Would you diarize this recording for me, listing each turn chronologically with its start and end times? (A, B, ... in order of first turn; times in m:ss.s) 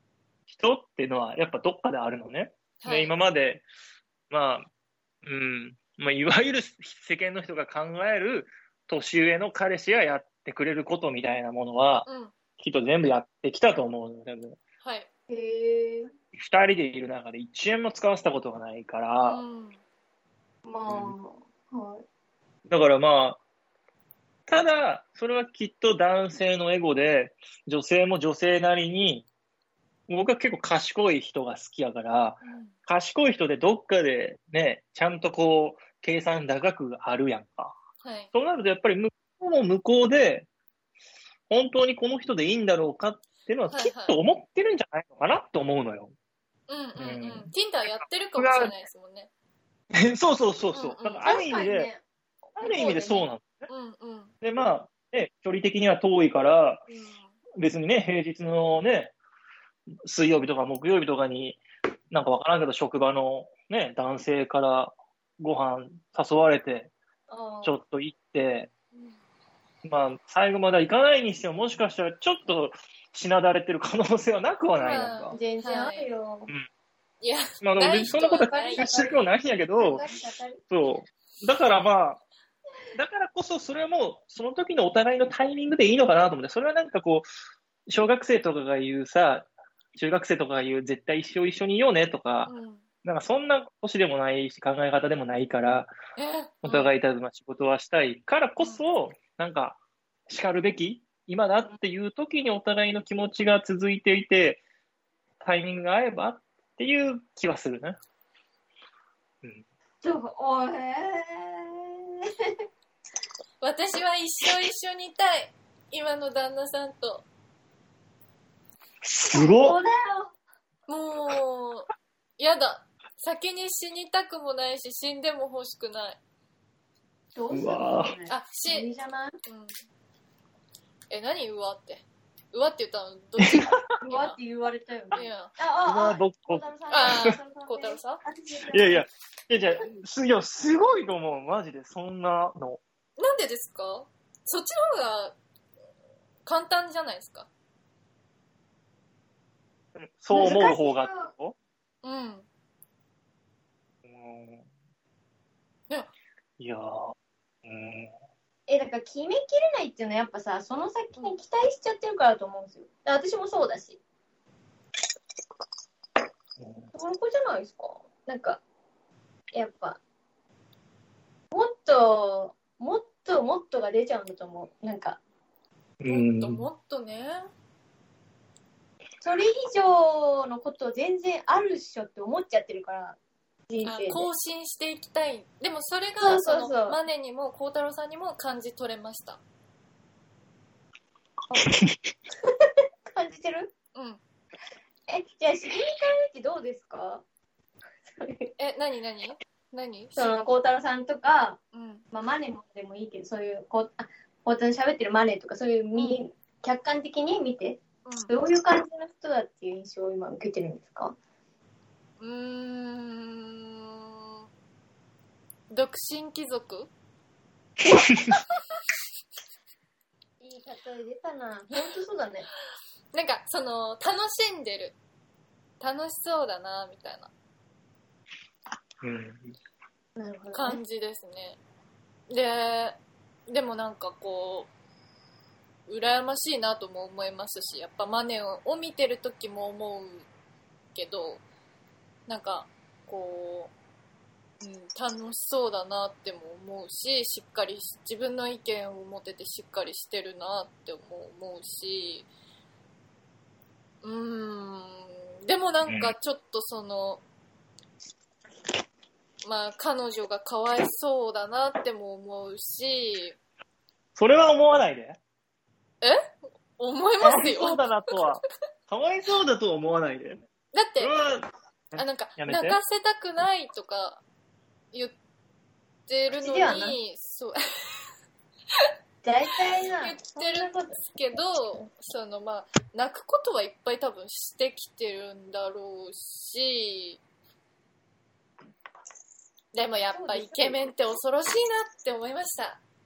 0:00.5-0:03.6 A
0:02.8-0:03.2 B
0:04.3-0:04.7 A
0:05.2-0:12.1 A
0:12.1-0:12.4 B
0:12.6-0:14.6 A
0:14.8-0:15.1 B
0:15.3-0:16.1 C
0:16.4-0:19.4 A
0:19.2-0:19.8 B
0:20.7-0:22.0 C
0:20.9-0:21.2 A
0:22.7-0:23.4 A
0:24.5-0:29.3 A
0:30.1-0:37.8 A
0:32.4-0:32.8 B
0:38.0-0:38.3 B
0:38.3-0:40.5 A
0:41.5-0:46.1 A
0:43.7-0:44.2 B
0:46.7-0:49.3 B
0:47.0-0:48.7 A
0:49.9-0:51.9 A
0:50.7-0:51.3 B
0:51.2-0:52.0 C
0:52.6-0:53.7 A
0:52.6-0:53.2 C
0:52.6-0:54.3 B
0:54.4-0:56.8 A
0:56.9-0:57.4 B
0:57.6-0:59.1 A
1:00.0-1:06.9 A
1:07.3-1:07.8 C
1:07.6-1:08.7 A
1:08.9-1:09.2 B
1:09.8-1:15.4 A
1:14.8-1:16.1 B
1:15.3-1:16.5 C
1:17.2-1:19.1 B
1:17.6-1:20.0 A
1:18.8-1:19.2 C
1:19.8-1:20.6 C
1:20.7-1:22.2 A
1:22.9-1:27.3 A
1:27.9-1:32.5 A
1:32.5-1:32.8 B
1:33.0-1:35.9 A
1:36.2-1:36.9 B
1:36.6-1:39.8 A
1:40.3-1:44.6 A
1:45.4-1:48.0 A
1:50.0-1:52.5 C
1:53.6-1:57.2 B
1:59.0-1:59.8 A
1:59.3-2:00.3 C
2:00.9-2:06.2 B
2:07.3-2:09.3 C
2:07.5-2:08.1 A
2:08.3-2:08.9 B
2:09.4-2:09.7 B
2:11.1-2:14.4 B
2:13.4-2:13.8 A
2:14.0-2:19.0 C
2:15.1-2:15.5 B
2:15.8-2:17.3 A
2:16.9-2:18.2 B
2:18.7-2:22.8 A
2:23.2-2:25.4 B
2:26.5-2:27.5 B
2:30.0-2:31.6 A
2:30.3-2:31.3 C
2:32.0-2:32.5 B
2:34.1-2:34.6 A
2:36.6-2:37.1 A
2:37.6-2:38.1 A
2:38.7-2:44.0 C
2:46.6-2:46.9 A
2:46.9-2:48.6 C
2:49.5-2:50.0 C
2:51.5-2:55.2 C
2:56.0-2:56.7 A
2:56.1-2:57.5 B
2:59.2-3:04.3 C
3:03.8-3:09.4 B
3:06.2-3:07.0 C
3:11.5-3:11.8 C
3:12.4-3:13.7 C
3:14.0-3:14.2 B
3:15.1-3:17.2 C
3:18.0-3:18.5 C
3:18.6-3:20.3 B
3:20.2-3:21.6 C
3:21.7-3:22.0 B
3:22.1-3:31.2 C
3:28.1-3:28.4 B
3:32.2-3:34.5 B
3:35.7-3:36.9 B
3:37.8-3:38.4 A
3:37.9-3:38.2 C
3:40.4-3:42.5 C
3:43.1-3:45.0 B
3:45.8-3:47.3 B
3:49.0-3:49.6 A
3:50.2-3:50.8 C
3:50.5-3:51.6 B
3:52.3-3:54.7 B
3:55.9-4:00.3 B
4:01.0-4:01.4 B
4:02.3-4:03.7 B
4:04.6-4:12.3 B
4:14.0-4:17.2 B
4:15.9-4:16.1 A
4:19.4-4:23.4 B
4:24.2-4:25.2 A
4:26.8-4:28.2 B
4:27.2-4:30.4 A
4:30.7-4:31.1 B
4:31.0-4:32.8 A
4:32.0-4:34.2 B
4:36.1-4:37.9 B
4:36.4-4:37.0 C
4:39.2-4:41.9 C
4:40.0-4:47.2 B
4:49.7-4:52.8 B
4:50.1-4:50.8 C